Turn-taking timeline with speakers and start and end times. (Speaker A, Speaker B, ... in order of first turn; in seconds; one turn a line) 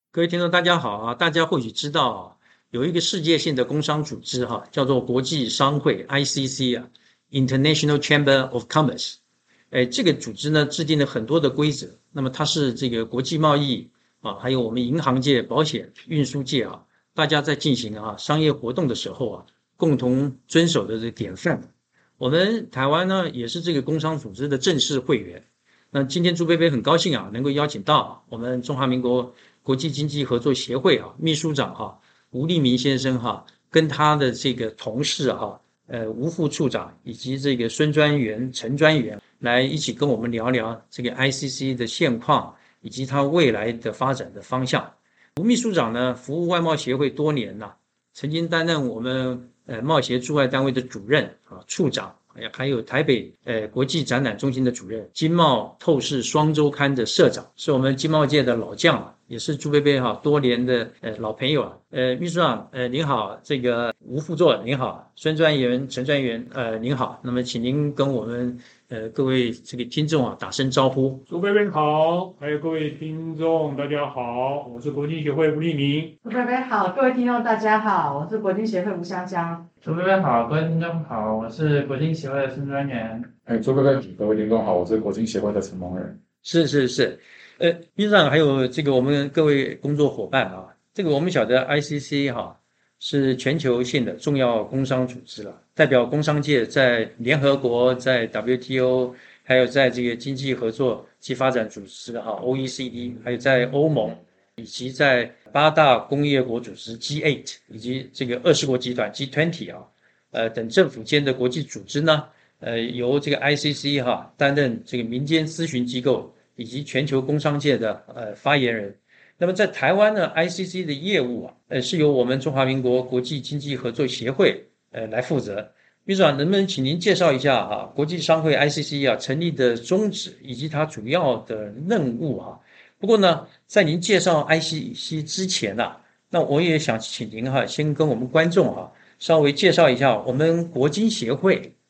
Speaker A: 0.1-9.2
Speaker A: 9.7-21.7
Speaker A: 22.2-71.2
Speaker B: 71.3-76.1
Speaker C: 76.2-79.7
Speaker D: 79.8-83.4
Speaker E: 83.5-86.1
Speaker D: 84.8-86.0
Speaker A: 86.4-141.7